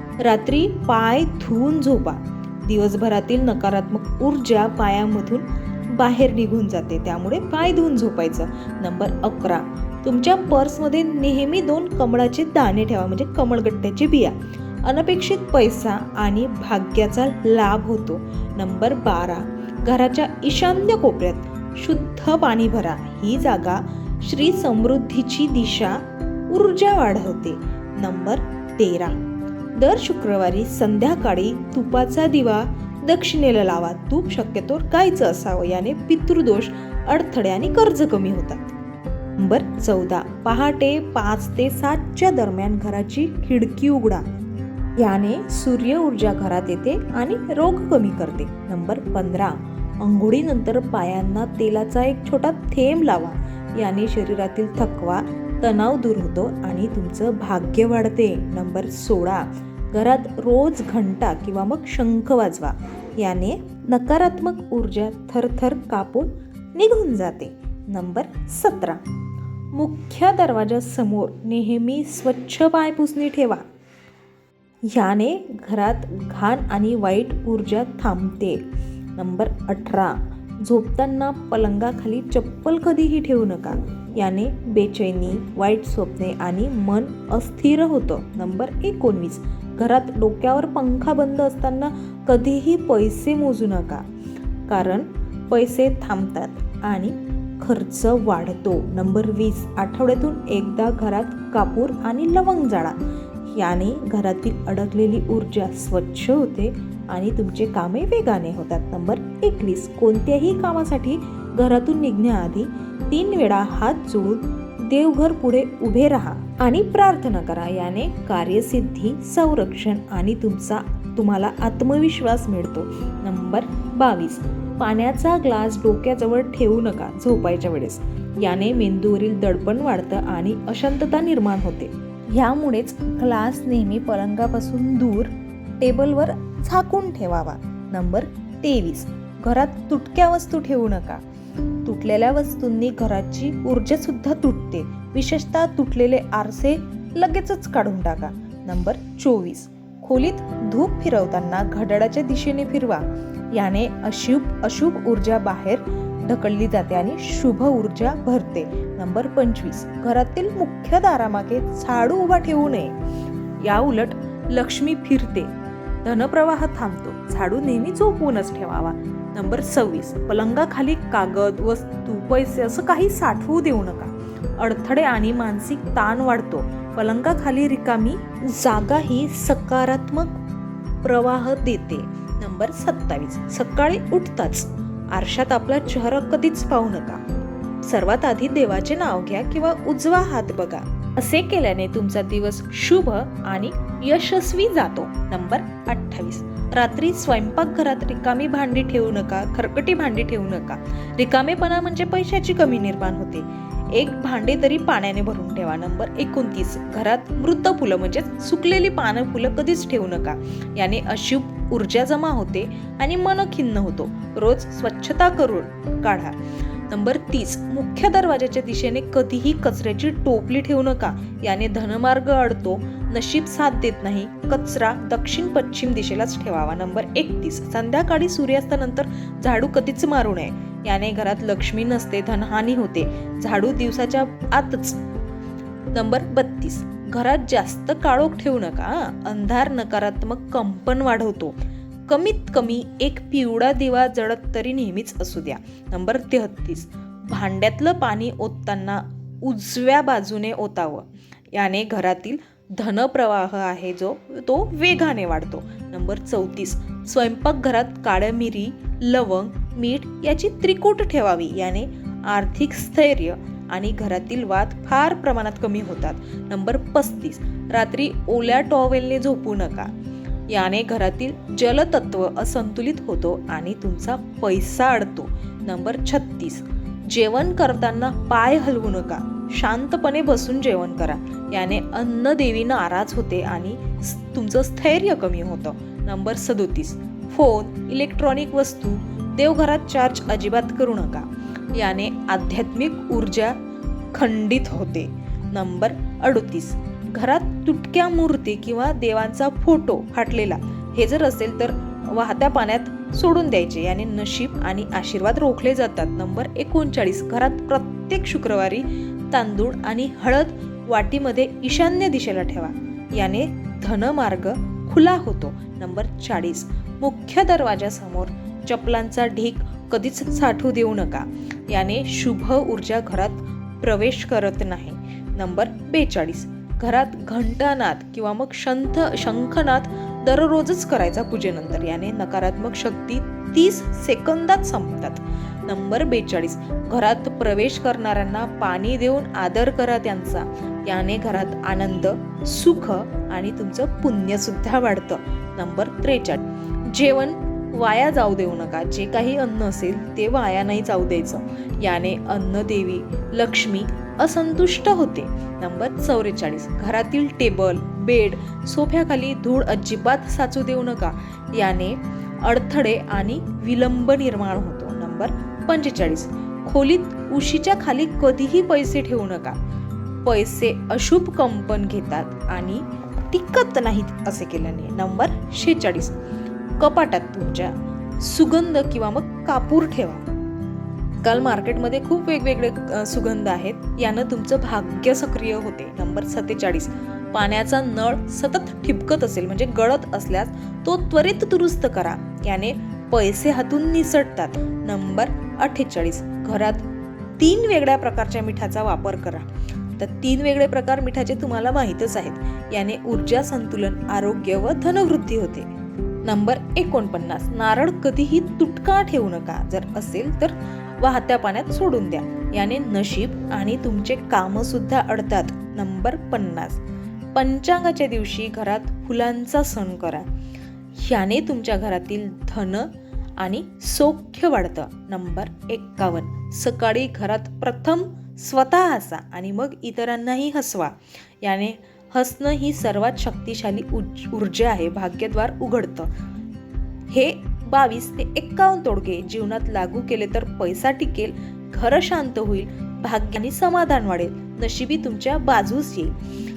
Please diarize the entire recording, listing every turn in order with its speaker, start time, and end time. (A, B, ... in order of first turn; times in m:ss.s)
0:00.2-0:29.2 A
0:29.8-0:38.8 A
0:39.4-0:44.2 A
0:45.0-1:09.0 A
1:09.8-1:13.6 A
1:14.9-1:18.6 A
1:19.2-1:34.0 A
1:34.7-1:43.0 A
1:43.6-2:21.2 A
2:21.8-2:42.9 A
2:43.6-2:45.5 A
2:46.0-3:00.4 A
3:01.0-3:07.2 A
3:07.8-3:55.0 A
3:55.9-4:29.9 A
4:30.5-4:53.6 A
4:54.1-6:09.6 A
6:10.2-6:16.2 A
6:16.8-6:20.2 A
6:21.2-6:36.9 A
6:37.4-6:45.7 A
6:46.2-6:56.8 A
6:57.4-7:00.3 A
7:01.0-7:16.1 A
7:17.1-7:26.2 A